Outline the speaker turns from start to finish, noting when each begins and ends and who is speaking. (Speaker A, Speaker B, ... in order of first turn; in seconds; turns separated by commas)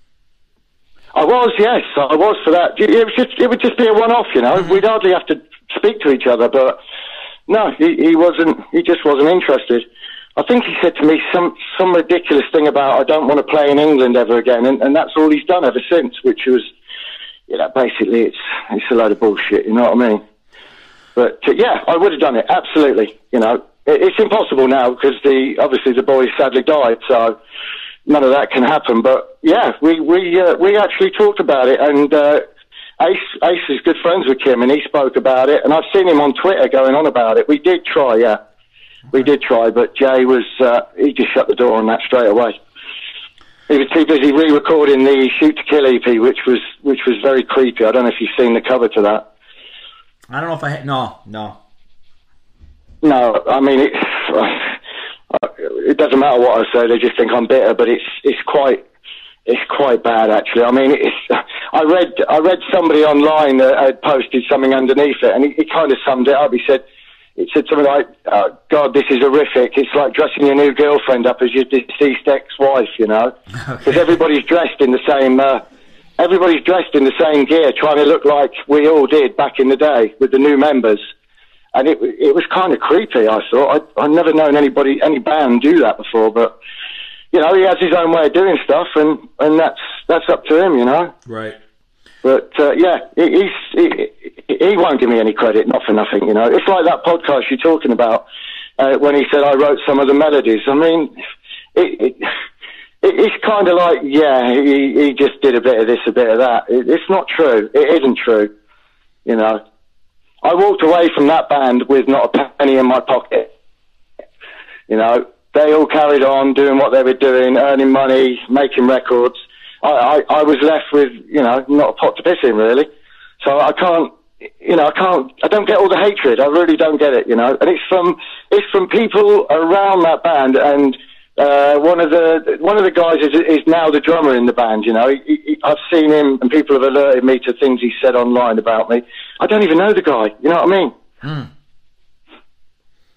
Speaker A: 1.1-6.8, Speaker A: 7.5-16.7, Speaker A: 17.5-20.2, Speaker A: 21.2-27.4, Speaker A: 28.1-32.4, Speaker A: 33.0-38.4, Speaker A: 39.1-42.6, Speaker A: 43.7-49.2, Speaker B: 50.3-51.6, Speaker A: 53.0-54.8, Speaker A: 55.3-58.8, Speaker A: 59.5-66.8, Speaker A: 67.4-73.3, Speaker B: 73.7-74.1, Speaker A: 73.8-75.6, Speaker A: 76.2-81.0, Speaker A: 81.7-86.5, Speaker A: 87.3-91.2, Speaker B: 91.3-91.6, Speaker A: 92.2-98.2, Speaker A: 98.8-101.1, Speaker A: 101.8-102.3, Speaker A: 103.0-108.5, Speaker A: 109.3-109.6, Speaker A: 110.4-113.5, Speaker A: 114.9-122.9, Speaker A: 123.4-140.9, Speaker B: 141.2-141.5